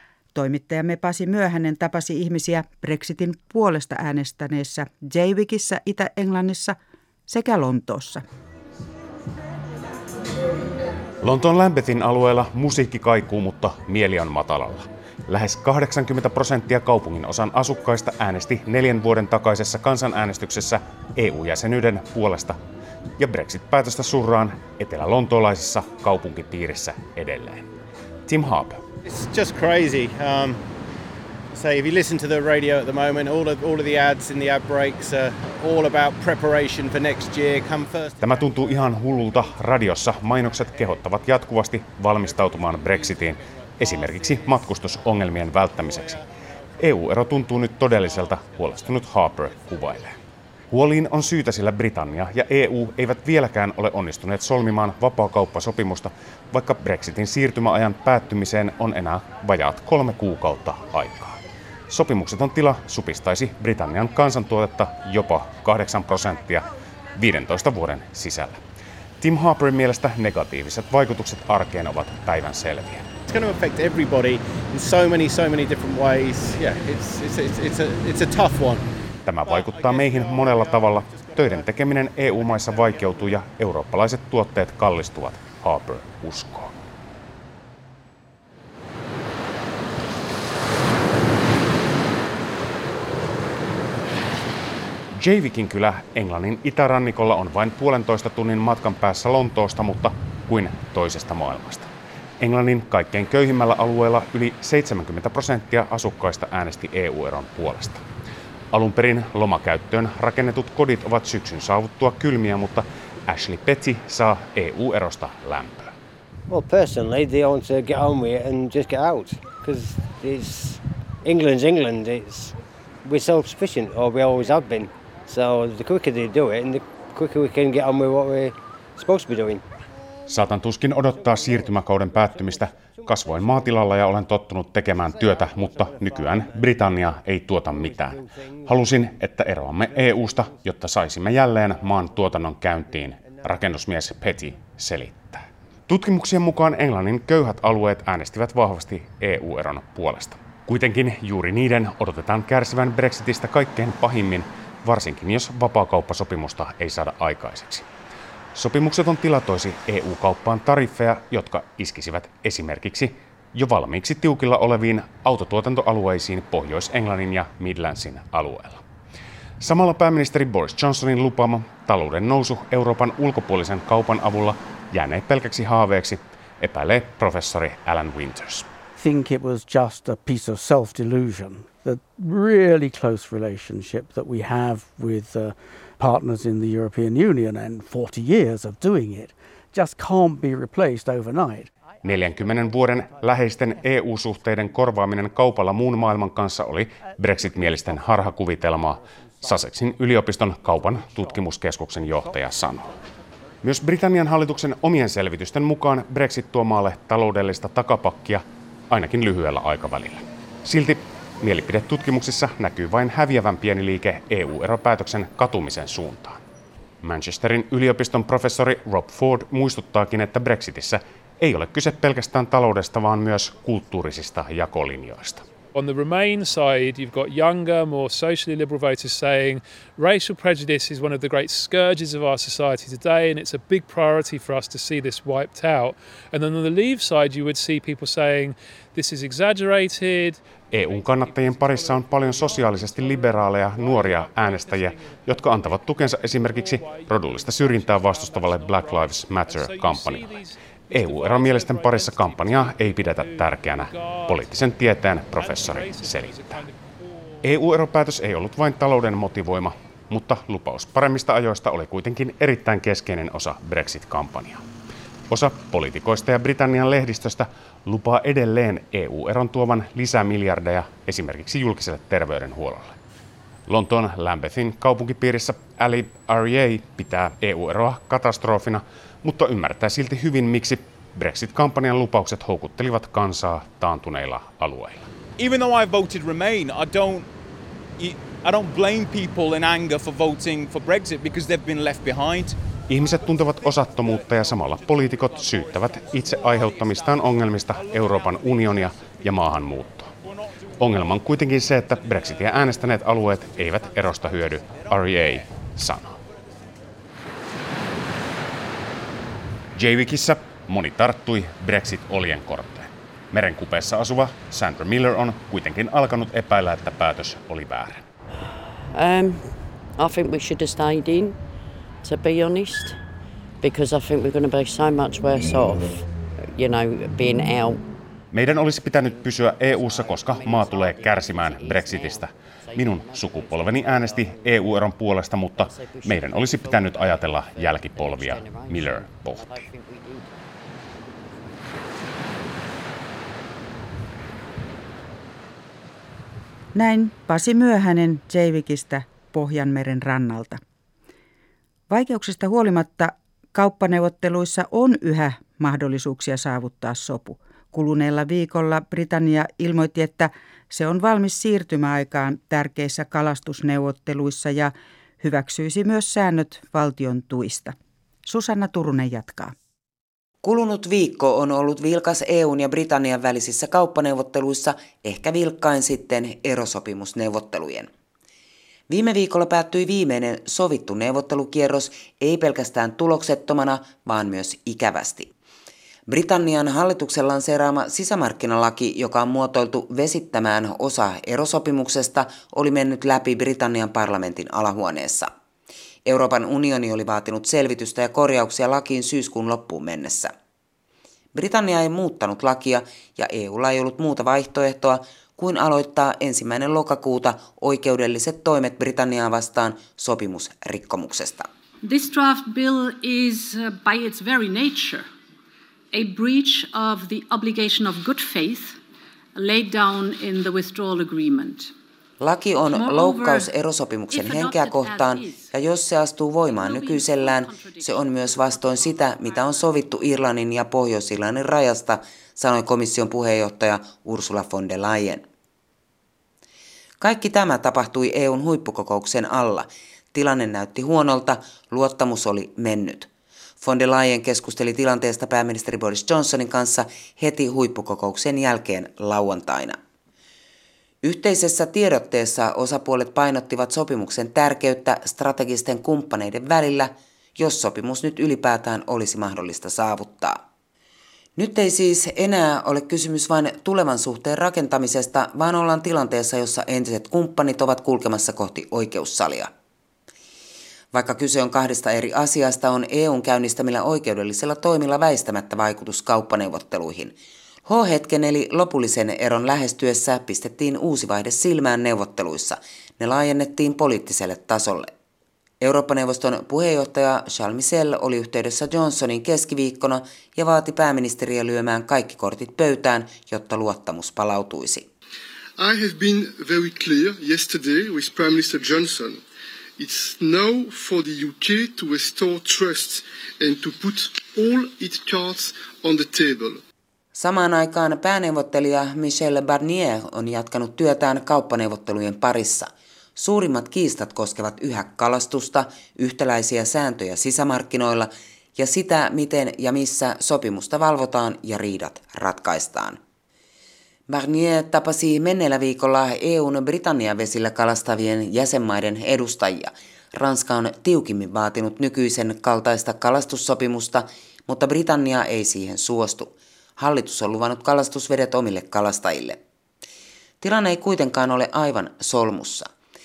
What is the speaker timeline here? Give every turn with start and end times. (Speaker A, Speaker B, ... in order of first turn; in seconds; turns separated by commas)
Speaker A: 0.3-6.8, Speaker A: 7.3-8.2, Speaker B: 11.2-22.6, Speaker B: 23.2-27.7, Speaker B: 28.3-28.8, Speaker C: 29.0-30.6, Speaker C: 31.5-39.0, Speaker B: 38.2-46.2, Speaker C: 42.3-44.6, Speaker C: 45.8-46.2, Speaker B: 46.8-50.2, Speaker C: 48.0-48.5, Speaker B: 50.7-68.6, Speaker B: 69.2-73.1, Speaker C: 73.3-78.9, Speaker B: 79.3-86.7, Speaker C: 79.4-81.7, Speaker C: 82.3-83.4, Speaker B: 95.1-108.0, Speaker B: 108.7-115.9, Speaker D: 116.5-129.6, Speaker B: 130.3-157.9, Speaker D: 131.2-133.7, Speaker D: 135.1-136.9, Speaker D: 137.7-138.8, Speaker D: 143.1-143.6, Speaker B: 158.6-168.8, Speaker B: 169.6-178.7, Speaker E: 179.0-191.7, Speaker B: 192.0-203.0, Speaker B: 203.6-216.4, Speaker B: 217.0-225.4, Speaker F: 225.8-257.4, Speaker B: 240.7-256.6, Speaker B: 257.4-264.6, Speaker B: 265.3-273.0, Speaker B: 273.7-285.1, Speaker G: 285.4-287.3, Speaker G: 288.0-292.6, Speaker B: 292.9-300.1, Speaker B: 300.8-306.2, Speaker B: 309.8-318.0, Speaker H: 318.9-321.4, Speaker H: 322.0-323.0, Speaker H: 323.6-327.9, Speaker B: 328.3-339.6, Speaker H: 328.7-335.0, Speaker H: 335.6-340.4, Speaker A: 346.8-350.6, Speaker A: 351.9-367.8, Speaker A: 368.3-369.5, Speaker I: 370.4-377.9, Speaker I: 378.9-385.3, Speaker I: 386.1-395.3, Speaker I: 396.1-400.3, Speaker I: 401.4-411.5, Speaker J: 411.8-415.1, Speaker J: 415.9-418.8, Speaker J: 419.4-421.7, Speaker I: 422.2-435.2, Speaker J: 422.7-423.5, Speaker J: 424.1-425.5, Speaker J: 426.4-430.2, Speaker I: 437.0-443.1, Speaker I: 443.6-449.8, Speaker I: 451.0-460.4, Speaker I: 461.4-469.5, Speaker I: 470.9-477.1, Speaker I: 477.7-484.9, Speaker I: 485.6-494.9, Speaker K: 495.6-499.2, Speaker K: 499.8-506.6, Speaker I: 507.1-523.0, Speaker I: 524.1-539.4, Speaker I: 540.4-542.7